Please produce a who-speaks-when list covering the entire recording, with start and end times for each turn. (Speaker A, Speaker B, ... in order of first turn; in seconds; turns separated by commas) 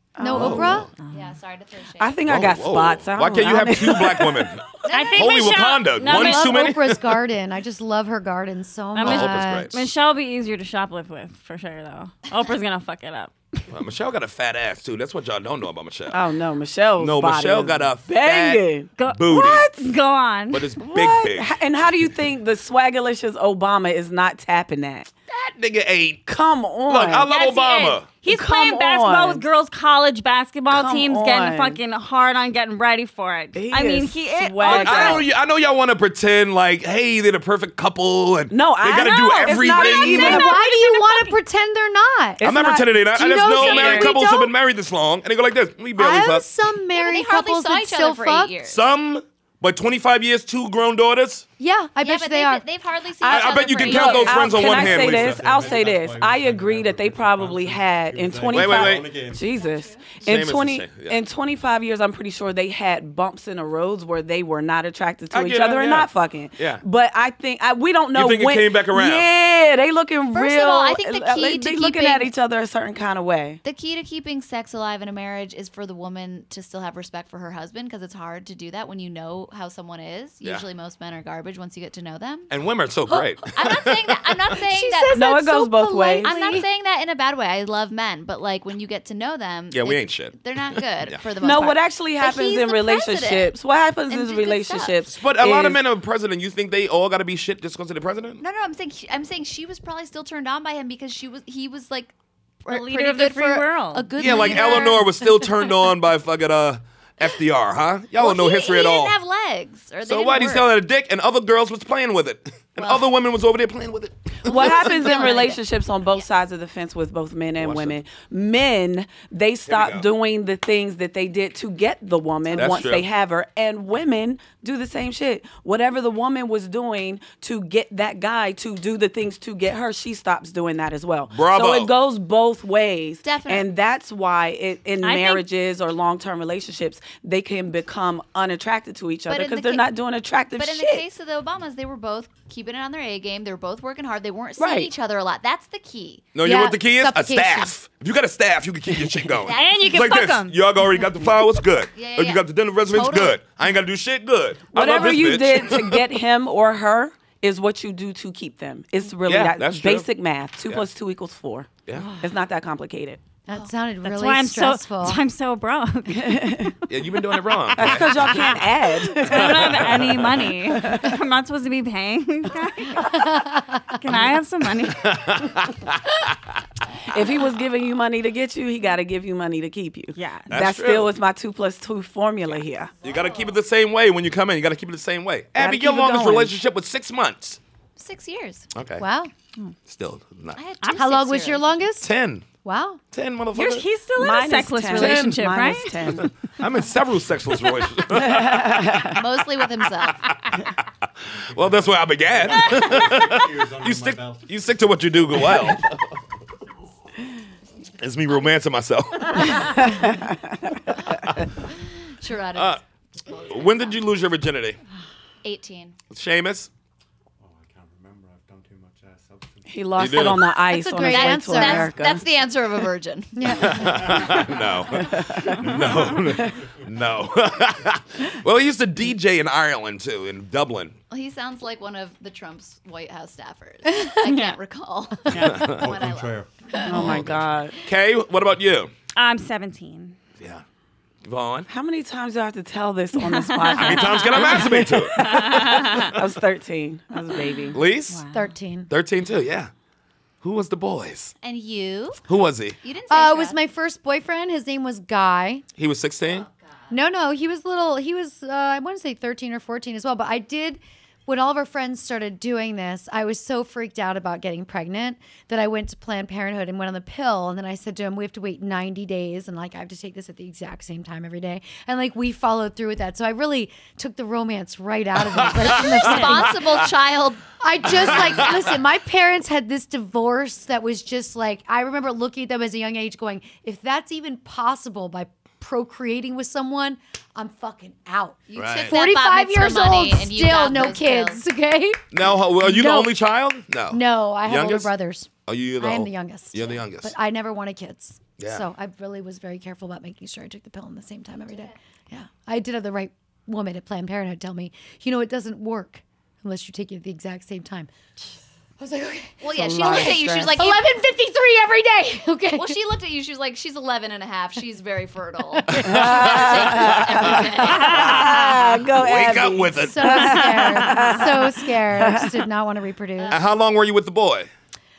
Speaker A: 0.2-0.8, Speaker B: 0.2-0.9, Speaker C: 0.3-0.9, Speaker D: 1.0-1.3, Speaker E: 1.1-2.4, Speaker A: 2.0-4.6, Speaker C: 2.2-7.2, Speaker E: 4.8-5.7, Speaker D: 4.9-6.6, Speaker B: 6.0-9.7, Speaker D: 8.9-13.7, Speaker C: 9.0-9.8, Speaker C: 13.7-16.2, Speaker A: 16.1-19.9, Speaker C: 17.0-19.7, Speaker D: 19.0-20.7, Speaker C: 20.5-21.6, Speaker A: 20.8-25.1, Speaker C: 25.3-26.2, Speaker A: 26.3-27.3, Speaker C: 26.9-28.1, Speaker D: 27.3-35.3, Speaker A: 28.2-29.4, Speaker A: 30.7-31.8, Speaker A: 33.5-35.3, Speaker C: 34.6-40.4, Speaker A: 38.5-40.5, Speaker D: 39.0-41.4, Speaker B: 39.8-42.5, Speaker A: 42.4-44.1, Speaker C: 42.4-46.5, Speaker B: 43.1-44.5, Speaker E: 43.7-44.0, Speaker B: 46.0-48.6, Speaker E: 46.9-48.9, Speaker C: 48.6-51.5, Speaker B: 51.6-52.6, Speaker E: 52.0-55.0, Speaker A: 53.2-73.6, Speaker C: 53.3-55.5, Speaker F: 54.8-59.6, Speaker C: 58.5-59.2, Speaker C: 60.2-61.2, Speaker C: 65.3-66.8, Speaker C: 68.1-69.3, Speaker E: 70.3-72.3, Speaker E: 73.6-82.5, Speaker C: 82.5-84.4, Speaker E: 83.5-85.2, Speaker B: 84.7-86.7, Speaker A: 85.1-86.3, Speaker E: 86.2-93.6, Speaker C: 89.7-90.4, Speaker C: 91.0-91.3, Speaker A: 91.4-95.8, Speaker E: 94.1-95.0, Speaker C: 95.1-98.4, Speaker E: 98.4-105.5, Speaker D: 102.7-104.2, Speaker C: 104.2-109.2, Speaker E: 108.2-110.8, Speaker C: 110.0-114.9, Speaker E: 112.8-113.1, Speaker A: 114.4-141.1, Speaker E: 114.5-116.3, Speaker C: 117.6-118.0, Speaker C: 119.7-120.1, Speaker C: 122.5-123.1, Speaker C: 131.3-131.9, Speaker E: 133.2-133.7, Speaker D: 135.0-135.4, Speaker E: 139.3-139.9, Speaker E: 140.5-146.3, Speaker A: 144.6-144.9, Speaker C: 146.3-156.0, Speaker B: 146.4-147.7, Speaker E: 149.4-149.9, Speaker D: 149.5-150.6, Speaker E: 151.9-153.4, Speaker A: 154.7-163.2, Speaker C: 159.2-160.1, Speaker C: 161.8-162.2, Speaker B: 163.5-165.2, Speaker D: 164.0-166.8, Speaker A: 166.1-166.8, Speaker C: 166.9-168.5, Speaker A: 167.7-170.0, Speaker D: 167.8-175.3, Speaker C: 169.3-170.4, Speaker A: 170.7-171.2, Speaker B: 173.1-173.9, Speaker C: 174.9-176.3, Speaker A: 177.1-183.0, Speaker D: 180.2-180.5, Speaker C: 180.5-181.1, Speaker E: 183.0-183.6, Speaker C: 183.0-187.6, Speaker A: 185.6-186.6, Speaker E: 188.0-188.7, Speaker C: 188.7-189.1, Speaker B: 189.0-189.3, Speaker C: 189.8-190.6, Speaker E: 190.6-191.8, Speaker D: 190.8-191.1, Speaker B: 191.0-192.1, Speaker C: 192.0-192.5, Speaker B: 192.6-193.0, Speaker C: 193.1-193.9, Speaker D: 193.6-196.3, Speaker A: 194.2-196.3, Speaker C: 194.9-195.4, Speaker C: 196.2-198.9, Speaker A: 198.2-199.2, Speaker E: 199.1-200.4, Speaker C: 200.2-200.6, Speaker F: 201.5-205.8, Speaker C: 201.5-205.9, Speaker C: 208.0-209.8, Speaker A: 209.6-210.5, Speaker E: 211.7-214.0, Speaker C: 212.6-212.8, Speaker C: 213.5-214.8, Speaker E: 215.4-216.0, Speaker C: 216.1-216.7, Speaker F: 217.4-220.1, Speaker A: 219.7-222.3, Speaker C: 220.0-220.5, Speaker B: 220.7-222.0, Speaker E: 221.0-224.3, Speaker B: 223.4-224.2, Speaker C: 223.6-231.0, Speaker A: 225.0-226.5, Speaker E: 231.1-237.2, Speaker D: 234.2-234.6, Speaker D: 235.3-235.7, Speaker C: 235.5-235.8, Speaker F: 235.6-236.5, Speaker A: 236.8-237.8, Speaker C: 236.9-238.9, Speaker D: 239.2-240.2, Speaker C: 241.2-241.7, Speaker A: 241.7-247.8, Speaker D: 243.2-246.2, Speaker C: 243.8-245.4, Speaker C: 247.7-248.2, Speaker D: 248.1-248.5, Speaker B: 248.3-248.9, Speaker C: 248.9-249.7, Speaker C: 250.4-251.3, Speaker E: 251.4-252.2, Speaker C: 252.3-252.8, Speaker E: 252.8-253.6, Speaker B: 253.1-255.7, Speaker C: 255.8-256.5, Speaker E: 256.3-256.9, Speaker B: 256.9-276.6, Speaker C: 275.3-276.9, Speaker E: 275.8-278.5, Speaker D: 276.1-276.4, Speaker B: 277.6-293.1, Speaker C: 278.1-278.6, Speaker E: 288.5-291.4, Speaker C: 288.6-289.0, Speaker C: 292.1-294.9, Speaker B: 293.9-307.9, Speaker C: 295.5-297.1, Speaker C: 298.4-298.7, Speaker B: 308.8-312.8, Speaker E: 309.4-310.9, Speaker A: 309.6-310.5, Speaker E: 312.5-318.2, Speaker C: 315.7-318.2, Speaker A: 315.8-322.4, Speaker D: 317.6-318.6, Speaker C: 318.9-320.4, Speaker B: 319.8-323.4, Speaker D: 320.3-321.2, Speaker E: 323.2-323.5, Speaker C: 323.3-324.5